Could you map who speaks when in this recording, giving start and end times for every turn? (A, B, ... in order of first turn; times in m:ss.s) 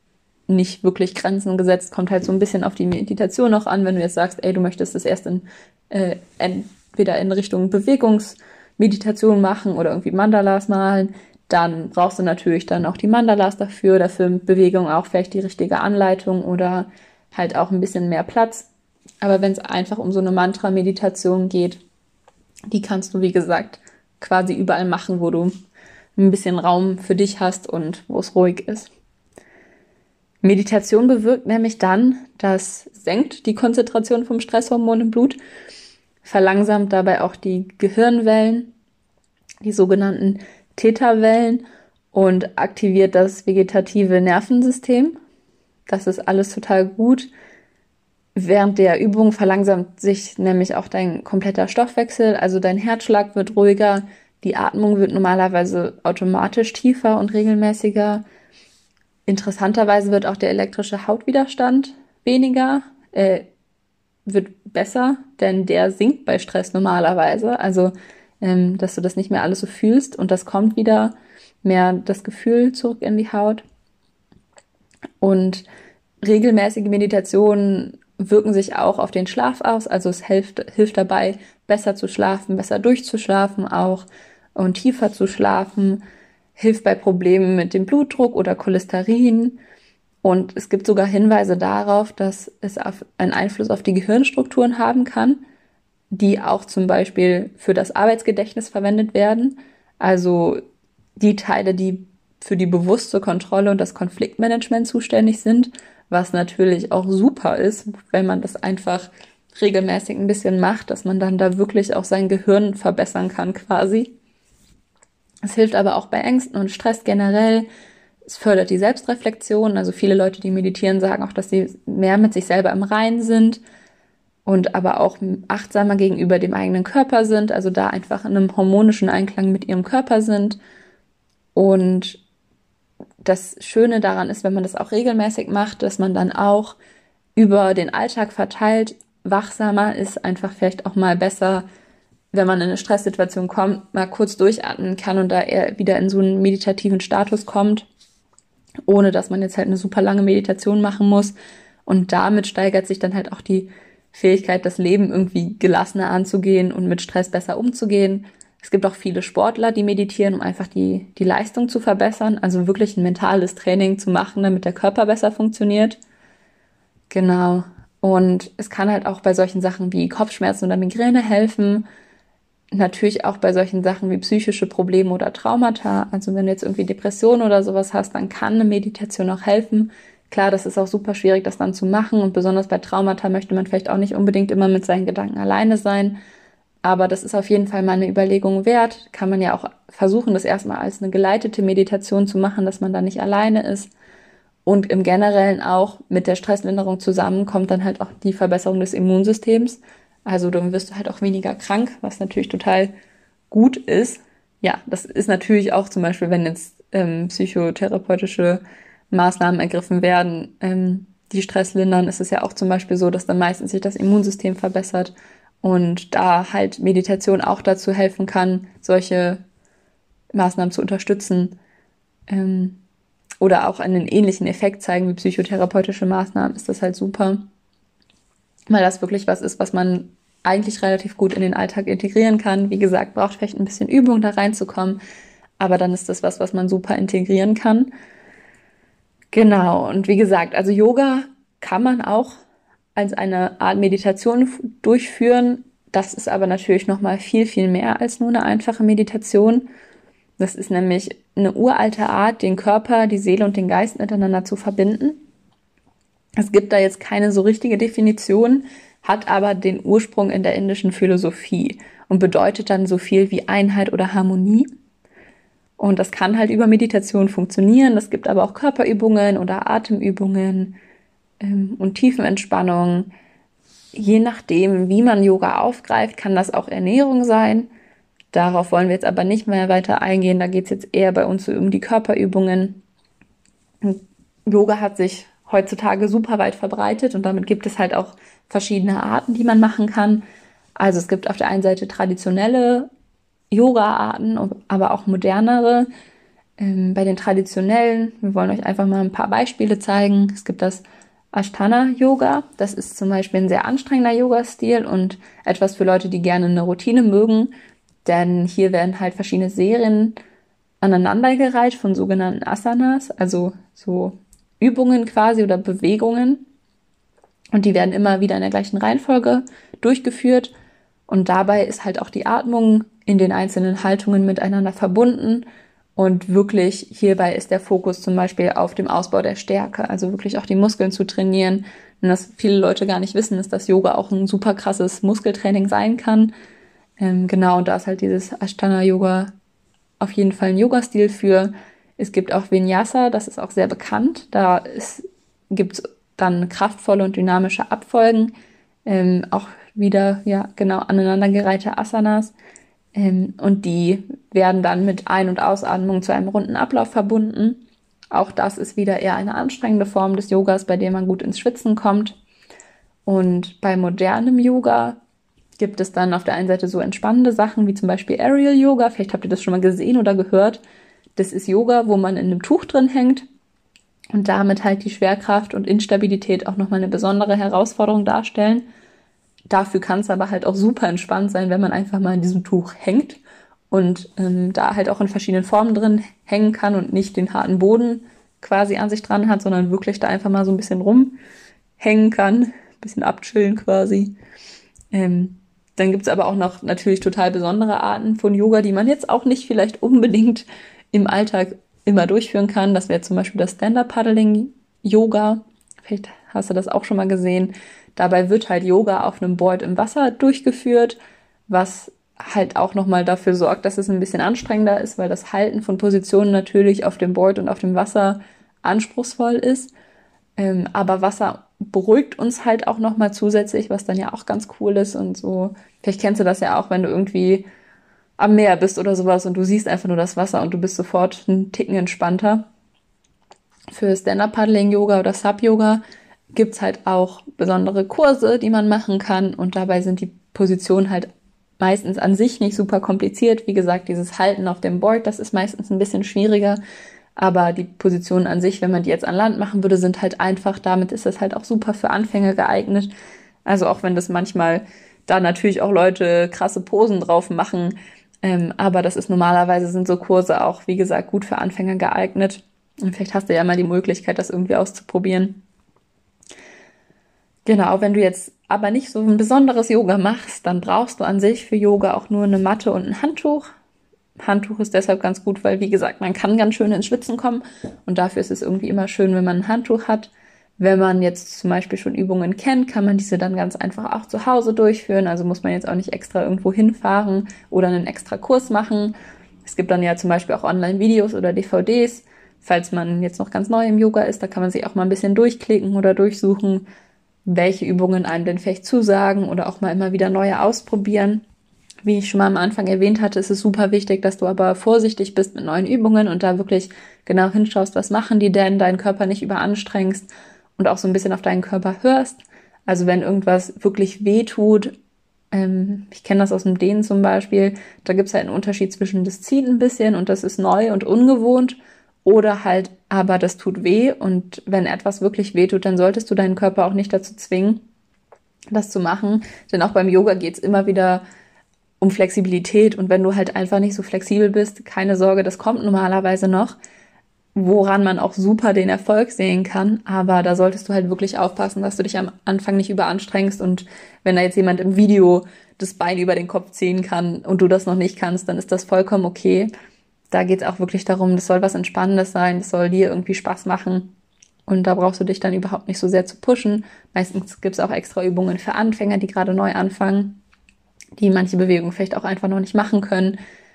0:00.5-0:18.7 A
0:19.2-0:21.8 A
0:22.7-0:25.5 A
0:26.2-0:28.9 A
0:30.4-0:35.4 A
0:36.2-0:38.7 A
0:39.6-0:45.2 A
0:45.9-0:47.3 A
0:48.4-0:58.2 A
0:59.3-1:03.4 A
1:04.3-1:13.6 A
1:15.2-1:15.6 A
1:16.2-1:26.0 A
1:26.6-1:29.6 A
1:30.2-1:35.4 A
1:36.1-1:40.6 A
1:41.2-1:54.1 A
1:55.4-1:57.7 A
1:58.3-2:03.6 A
2:04.5-2:10.6 A
2:11.6-2:12.2 A
2:13.2-2:16.8 A
2:17.4-2:21.7 A
2:22.3-2:27.9 A
2:28.9-2:31.4 A
2:31.9-2:46.0 A
2:47.1-2:51.8 A
2:52.7-3:06.2 A
3:06.8-3:13.9 A
3:14.6-3:22.9 A
3:23.5-3:39.4 A
3:40.3-3:41.6 A
3:42.3-3:42.8 A
3:43.4-3:47.4 A
3:48.7-3:55.0 A
3:55.6-3:57.9 A
3:59.3-4:02.4 A
4:03.0-4:09.7 A
4:10.4-4:15.2 A
4:16.4-4:24.7 A
4:25.8-4:30.8 A
4:31.4-4:33.1 A
4:34.0-4:37.7 A
4:38.3-4:42.8 A
4:43.8-4:50.2 A
4:50.8-4:52.9 A
4:53.5-4:55.9 A
4:56.6-5:07.5 A
5:08.0-5:10.2 A
5:10.8-5:16.4 A
5:17.5-5:20.5 A
5:21.1-5:25.4 A
5:26.0-5:36.3 A
5:37.0-5:39.3 A
5:40.0-5:48.3 A
5:48.9-5:52.3 A
5:53.0-6:02.2 A
6:03.1-6:05.0 A
6:05.6-6:10.6 A
6:11.2-6:13.3 A
6:14.1-6:18.7 A
6:19.5-6:31.2 A
6:31.8-6:34.1 A
6:34.9-6:59.7 A
7:00.4-7:07.5 A
7:08.2-7:12.5 A
7:13.7-7:15.8 A
7:16.3-7:26.6 A
7:27.2-7:32.9 A
7:33.5-7:45.4 A
7:47.5-7:53.5 A
7:54.2-8:16.7 A
8:17.3-8:21.2 A
8:21.8-8:34.8 A
8:35.3-8:47.6 A
8:48.5-8:51.0 A
8:51.8-8:56.6 A
8:57.4-9:09.5 A
9:10.1-9:13.9 A
9:14.5-9:20.2 A
9:21.0-9:23.2 A